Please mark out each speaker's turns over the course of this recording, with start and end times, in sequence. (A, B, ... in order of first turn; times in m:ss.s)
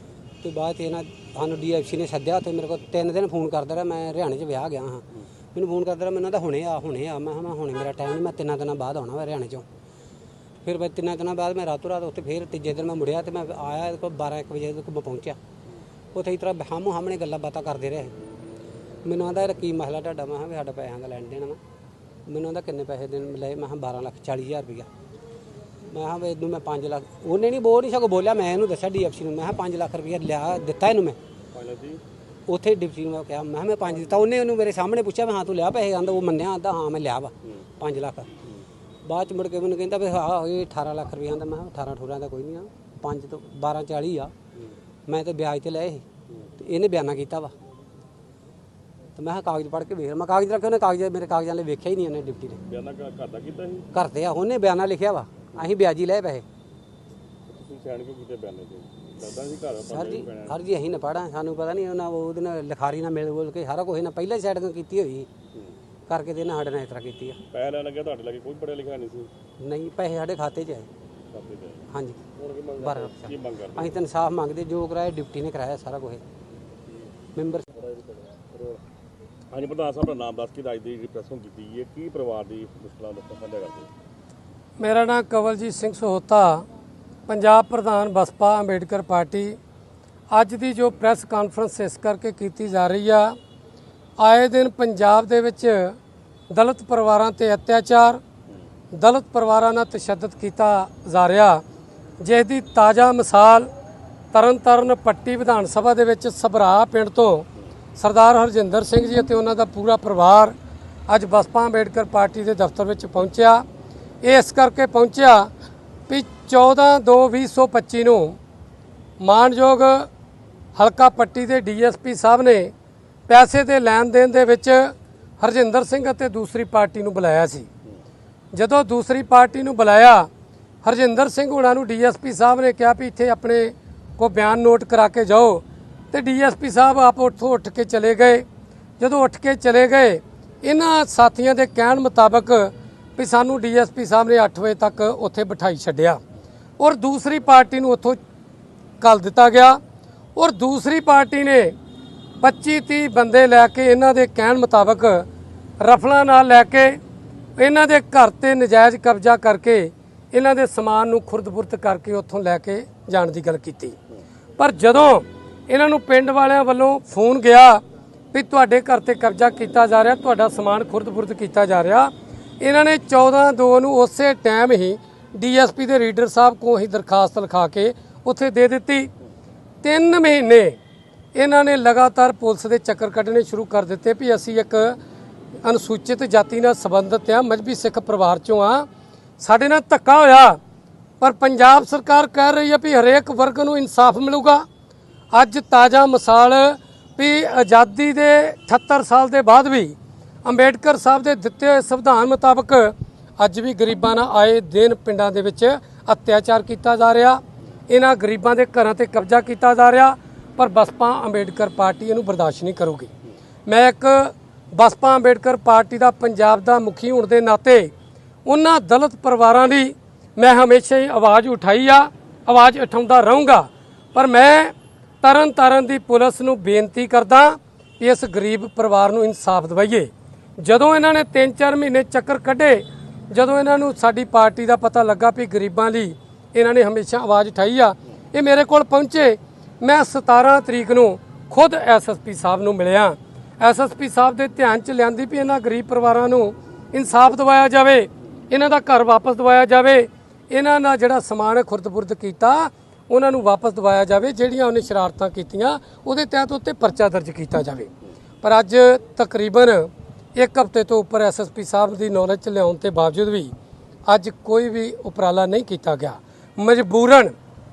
0:00.4-0:09.6 A
0:10.6-0:15.4 A
0:16.1-0:18.1 A
0:19.0-0:21.6 A
0:22.3-0:24.9 A
0:25.9-0:31.2 A
0:31.5-0:32.0 B
0:32.5-0:38.3 A
0:39.0-0:44.3 A
0:45.1-0:46.0 A
0:46.6-0:47.5 A
0:49.2-0:52.6 A
0:52.7-0:53.9 B
0:53.9-0:56.4 A
0:57.5-1:00.6 B
0:59.9-1:05.3 A
1:06.1-1:07.4 A
1:07.5-1:09.3 B
1:09.6-1:10.9 A
1:11.3-1:14.0 B
1:11.9-1:12.2 A
1:12.8-1:16.2 A
1:17.4-1:17.6 A
1:17.7-1:18.8 B
1:19.5-1:23.9 B
1:24.8-1:26.7 C
1:27.3-1:29.6 C
1:30.3-1:33.4 C
1:34.2-1:36.0 C
1:36.5-1:38.2 C
1:38.9-1:41.6 C
1:42.2-1:43.7 C
1:44.3-1:50.6 C
1:51.1-1:53.6 C
1:54.2-1:55.5 C
1:56.1-1:58.4 C
1:59.2-2:00.1 C
2:00.8-2:02.7 C
2:03.3-2:07.7 C
2:08.5-2:10.3 C
2:10.8-2:18.5 C
2:19.0-2:26.2 C
2:26.8-2:28.2 C
2:29.0-2:29.8 C
2:30.4-2:31.8 C
2:32.4-2:35.3 C
2:35.8-2:37.0 C
2:37.6-2:44.0 C
2:44.6-2:47.8 C
2:48.3-2:59.1 C
2:59.8-3:00.8 C
3:01.4-3:05.0 C
3:05.6-3:08.9 C
3:09.4-3:10.6 C
3:11.2-3:14.6 C
3:15.3-3:33.1 C
3:33.7-3:37.9 C
3:38.5-4:17.9 C
4:18.4-4:23.5 C
4:24.1-4:27.3 C